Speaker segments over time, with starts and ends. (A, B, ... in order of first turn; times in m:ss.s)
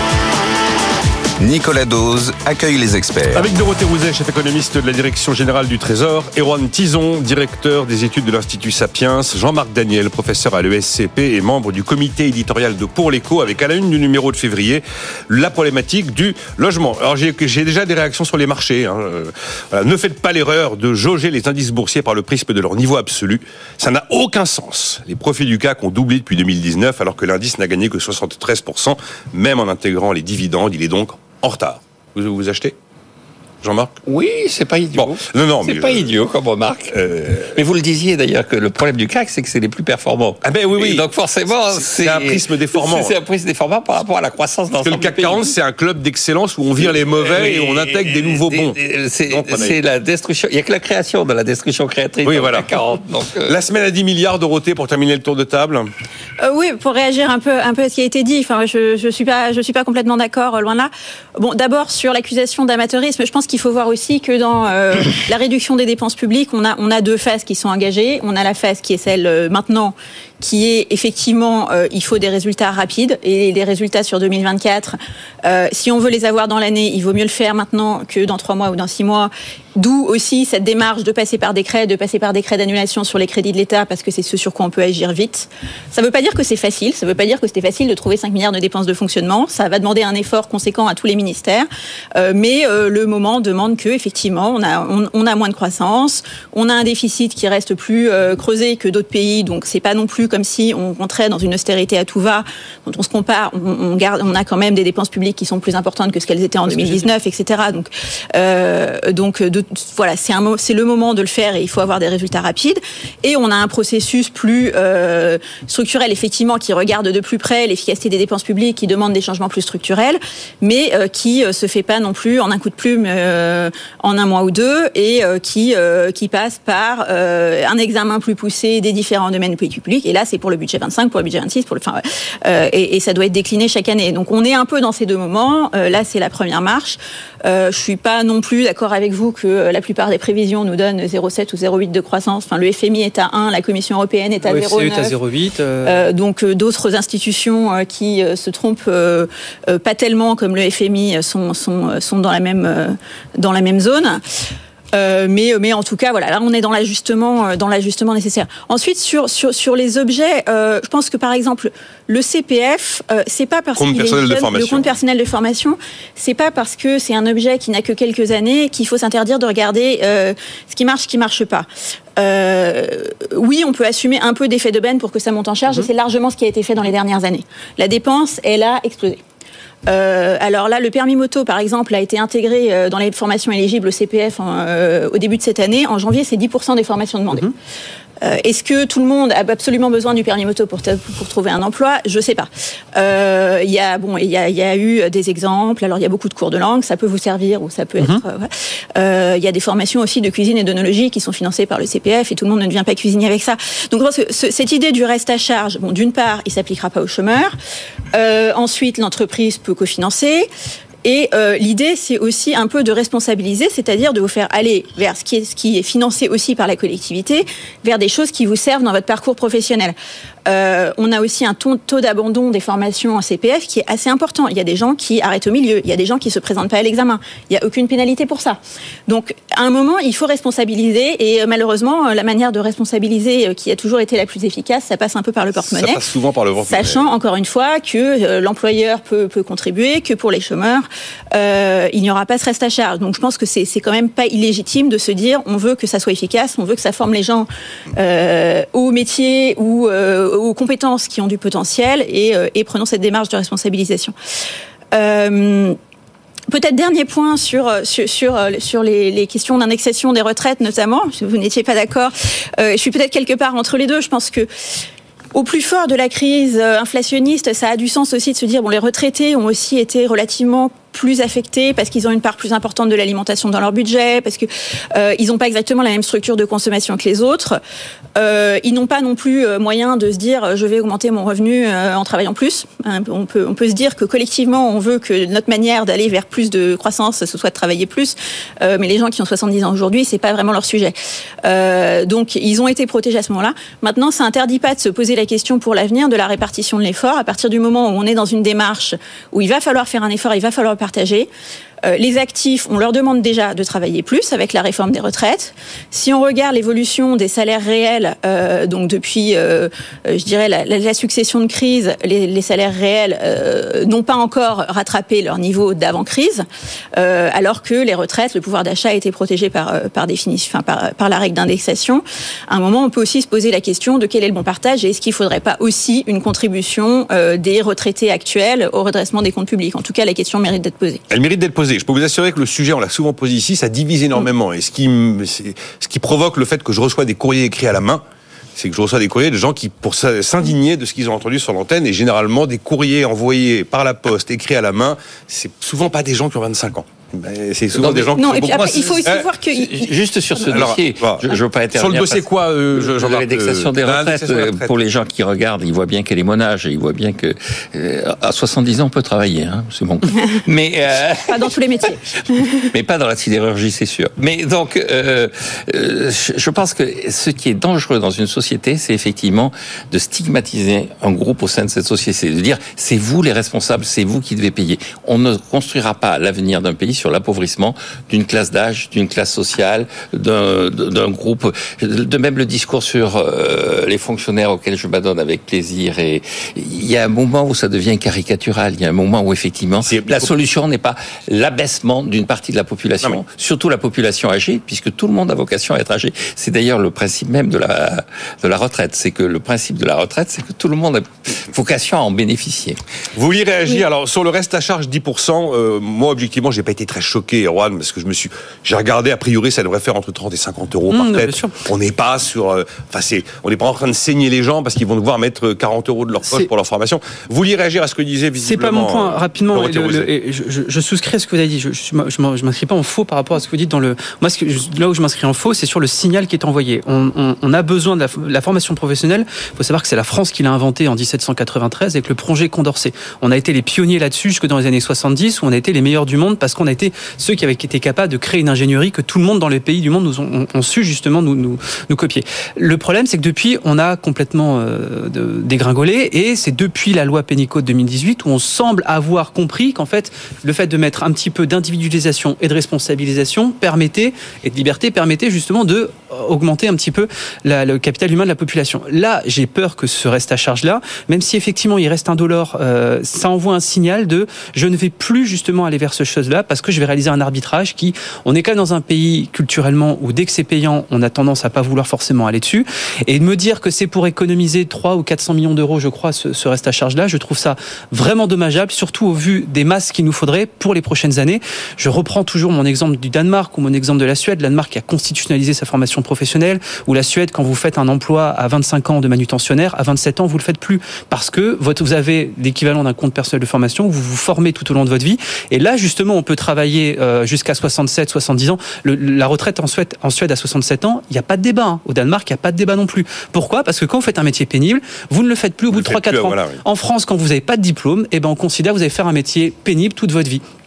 0:01.4-0:03.5 A
0:03.3-0:32.8 B
0:33.6-0:34.0 B
0:34.1-0:45.6 C
0:35.0-0:36.1 B
0:36.9-0:37.5 B
0:40.4-0:41.1 B
0:41.7-0:43.1 B
0:44.8-0:48.8 B
0:46.8-0:53.6 C
0:49.3-0:49.8 B
0:52.2-0:52.7 B
0:53.5-0:55.9 B
0:56.4-2:25.2 D
1:46.7-1:47.1 E
2:24.5-2:26.0 E
2:25.8-2:34.2 D
2:34.9-2:51.7 D
2:43.8-2:44.9 B
2:52.2-2:59.2 D
2:59.9-3:07.5 D
3:08.2-3:27.6 D
3:28.1-3:30.5 D
3:31.0-3:40.0 D
3:40.5-3:56.0 D
3:55.6-3:57.0 B
3:56.7-4:14.1 D
4:14.9-4:15.8 D
4:16.5-4:24.5 D
4:25.3-4:37.6 D
4:38.2-5:01.3 D
5:01.8-5:31.0 D
5:31.1-5:38.0 B
5:38.6-5:49.3 B
5:47.7-6:01.6 C
5:48.2-5:49.9 D
5:50.5-5:54.7 B
6:01.3-6:02.4 D
6:02.6-6:42.8 C
6:29.9-6:30.3 B
6:43.2-7:00.1 B
6:50.9-6:51.6 E
6:58.4-8:30.4 E
8:25.7-8:26.6 B